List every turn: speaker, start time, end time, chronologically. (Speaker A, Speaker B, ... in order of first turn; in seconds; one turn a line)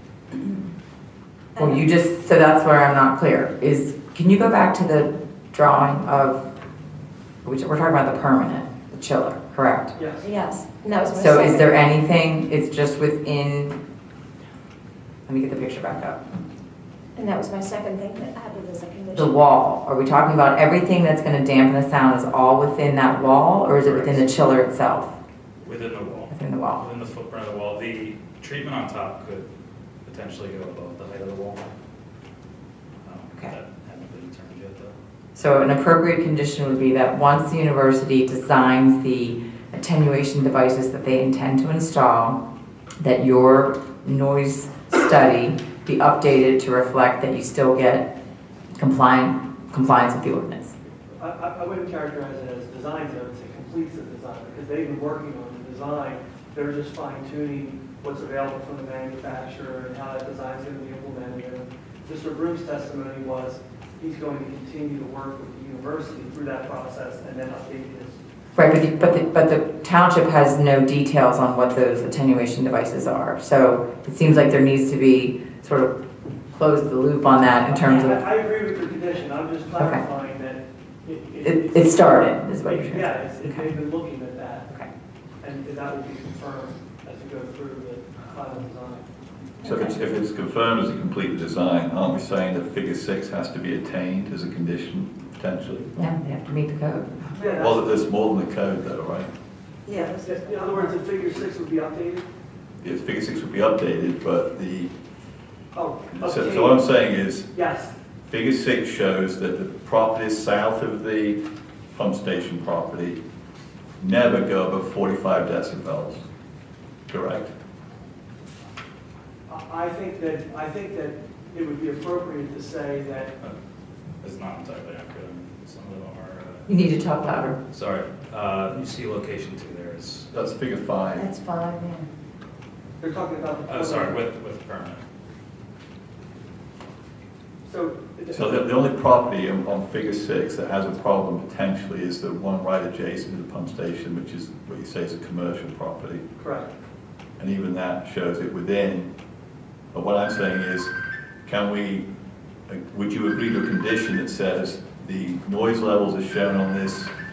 Speaker A: 1.6-1.9
Speaker B: 1.6-6.4
Speaker B: 7.4-9.9
Speaker C: 9.9-10.3
Speaker A: 10.2-11.7
Speaker B: 11.2-13.8
Speaker B: 15.3-16.2
Speaker A: 17.2-19.4
Speaker B: 19.2-25.1
Speaker D: 23.9-24.3
Speaker D: 25.6-29.5
Speaker B: 26.3-26.8
Speaker D: 30.1-31.7
Speaker D: 33.0-34.9
Speaker B: 35.4-42.4
Speaker B: 43.0-48.1
Speaker B: 48.8-50.7
Speaker C: 51.2-68.2
Speaker B: 68.5-75.9
Speaker B: 76.5-78.3
Speaker C: 77.7-84.7
Speaker B: 81.4-83.6
Speaker C: 85.4-89.1
Speaker A: 89.6-89.9
Speaker E: 89.6-95.9
Speaker B: 96.0-97.2
Speaker C: 97.3-97.9
Speaker E: 97.5-99.3
Speaker A: 99.9-100.7
Speaker C: 100.2-102.3
Speaker E: 102.8-104.9
Speaker C: 105.7-106.8
Speaker E: 106.1-107.5
Speaker C: 107.5-108.0
Speaker E: 108.3-111.4
Speaker E: 111.9-113.2
Speaker E: 114.0-116.2
Speaker E: 117.1-117.5
Speaker C: 119.5-123.3
Speaker D: 124.2-126.8
Speaker B: 126.7-127.6
Speaker D: 127.7-130.3
Speaker E: 130.3-131.3
Speaker A: 131.2-132.1
Speaker C: 133.0-134.2
Speaker D: 133.7-135.0
Speaker C: 137.7-138.7
Speaker E: 138.3-146.2
Speaker C: 146.4-146.7
Speaker E: 147.4-149.1
Speaker E: 149.9-150.9
Speaker E: 151.4-152.1
Speaker E: 152.7-157.1